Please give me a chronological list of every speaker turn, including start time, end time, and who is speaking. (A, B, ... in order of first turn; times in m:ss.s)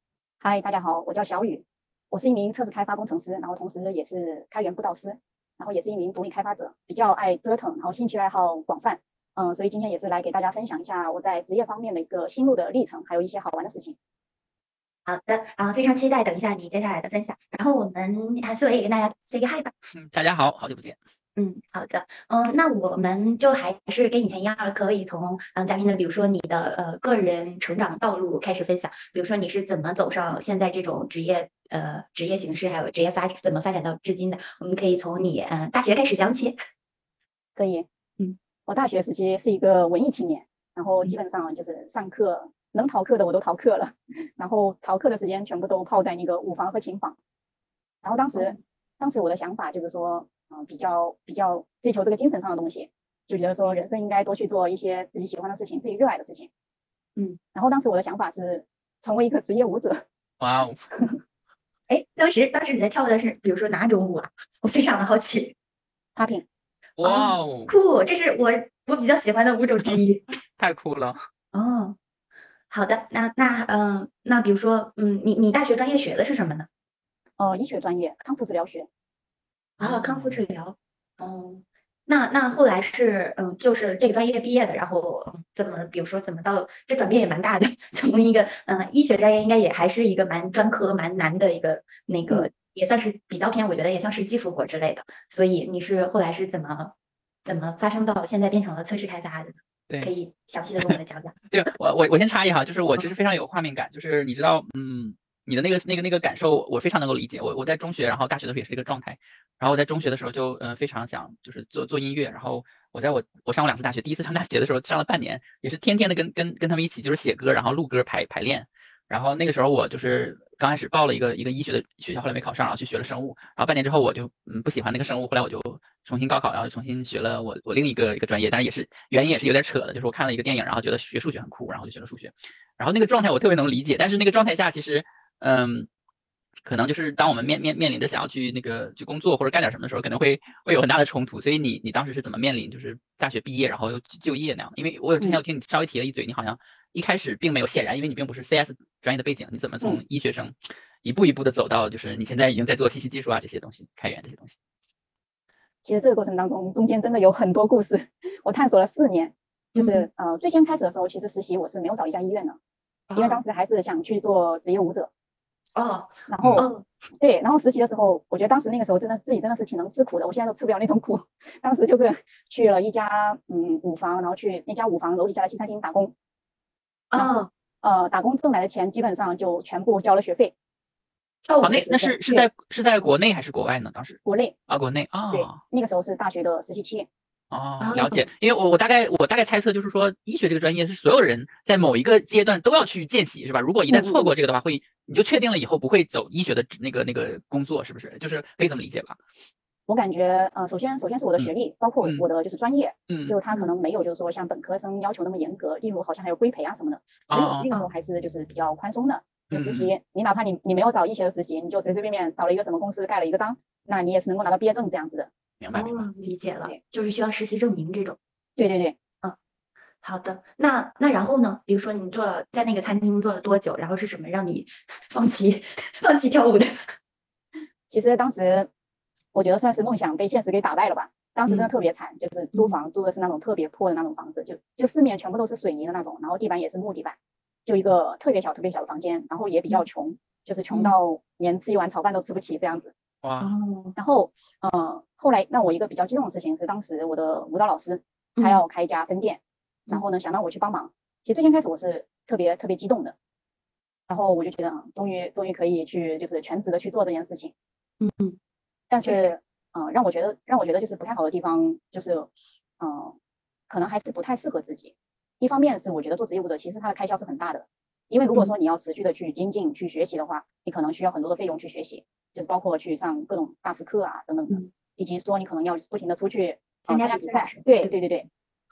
0:00.4-0:14.0 A
0:15.1-0:19.7 B
0:19.9-0:21.0 C
0:21.4-0:36.6 B
0:37.6-0:37.9 A
0:38.7-0:47.2 A
0:48.0-0:56.5 A
0:57.5-1:00.0 A
1:00.4-1:00.9 C
1:01.9-1:05.6 B
1:06.2-1:06.4 A
1:07.0-1:07.7 C
1:07.0-1:10.2 B
1:10.6-1:11.2 C
1:11.5-1:12.0 B
1:12.7-1:16.7 B
1:17.4-1:18.9 A
1:19.8-1:20.4 C
1:19.8-1:36.9 B
1:37.4-1:41.4 B
1:41.5-2:15.9 C
2:16.6-2:34.6 C
2:35.8-2:42.6 A
2:39.8-2:40.1 B
2:43.1-2:43.4 B
2:43.2-2:45.1 A
2:45.8-2:46.8 B
2:46.3-2:56.1 A
2:46.4-2:46.7 C
2:57.1-2:57.5 B
2:57.8-3:00.5 A
3:01.4-3:02.2 B
3:01.6-3:05.6 C
3:04.3-3:04.6 A
3:05.3-3:07.1 A
3:07.5-3:19.2 C
3:07.8-3:08.2 B
3:13.9-3:14.3 A
3:19.9-3:35.3 A
3:23.1-3:23.4 C
3:27.3-3:27.7 C
3:29.5-3:30.0 C
3:35.6-3:36.1 C
3:35.7-3:38.2 B
3:38.6-3:39.0 A
3:40.0-3:46.7 B
3:47.9-3:48.7 A
3:49.3-4:02.9 A
4:00.7-4:01.0 B
4:03.2-4:03.5 C
4:03.4-4:03.9 B
4:04.0-4:13.2 A
4:08.4-4:08.6 B
4:14.1-4:17.5 A
4:18.0-4:18.4 B
4:18.9-4:22.3 A
4:22.8-4:23.2 A
4:23.7-4:38.3 A
4:36.9-4:37.9 B